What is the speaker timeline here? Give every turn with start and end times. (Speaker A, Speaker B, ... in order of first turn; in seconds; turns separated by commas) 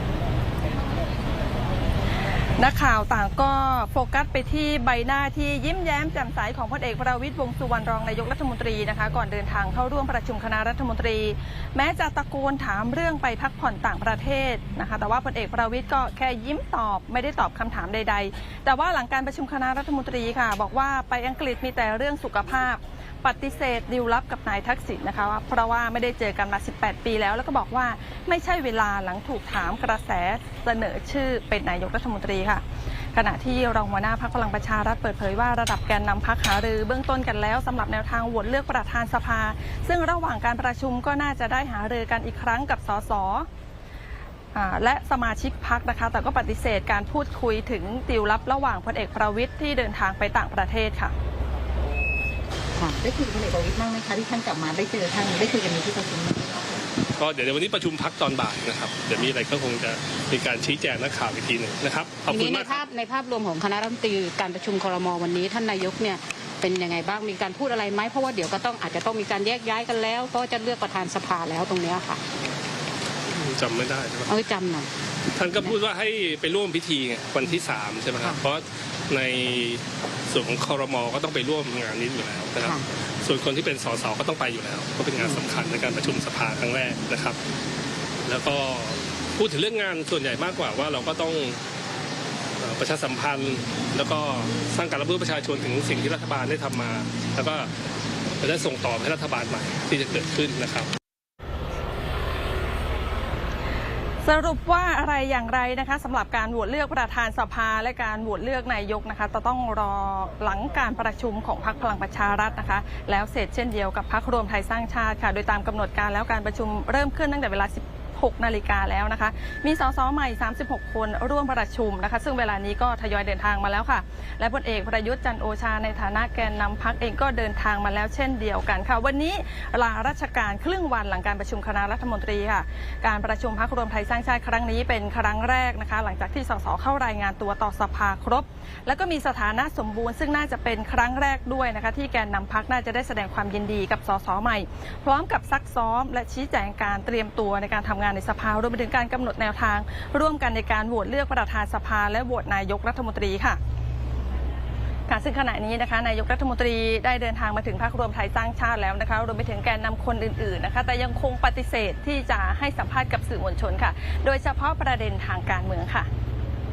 Speaker A: 2.6-32.6, Speaker A: 33.1-43.5, Speaker A: 44.5-51.1, Speaker B: 53.0-56.6, Speaker C: 57.1-62.8, Speaker D: 62.3-72.2, Speaker C: 73.3-74.3, Speaker D: 74.3-74.9, Speaker C: 75.3-87.4, Speaker D: 75.4-75.8, Speaker D: 85.2-85.6, Speaker C: 88.2-91.6, Speaker C: 92.6-97.7, Speaker C: 98.4-100.9, Speaker A: 104.2-153.6, Speaker A: 155.1-166.1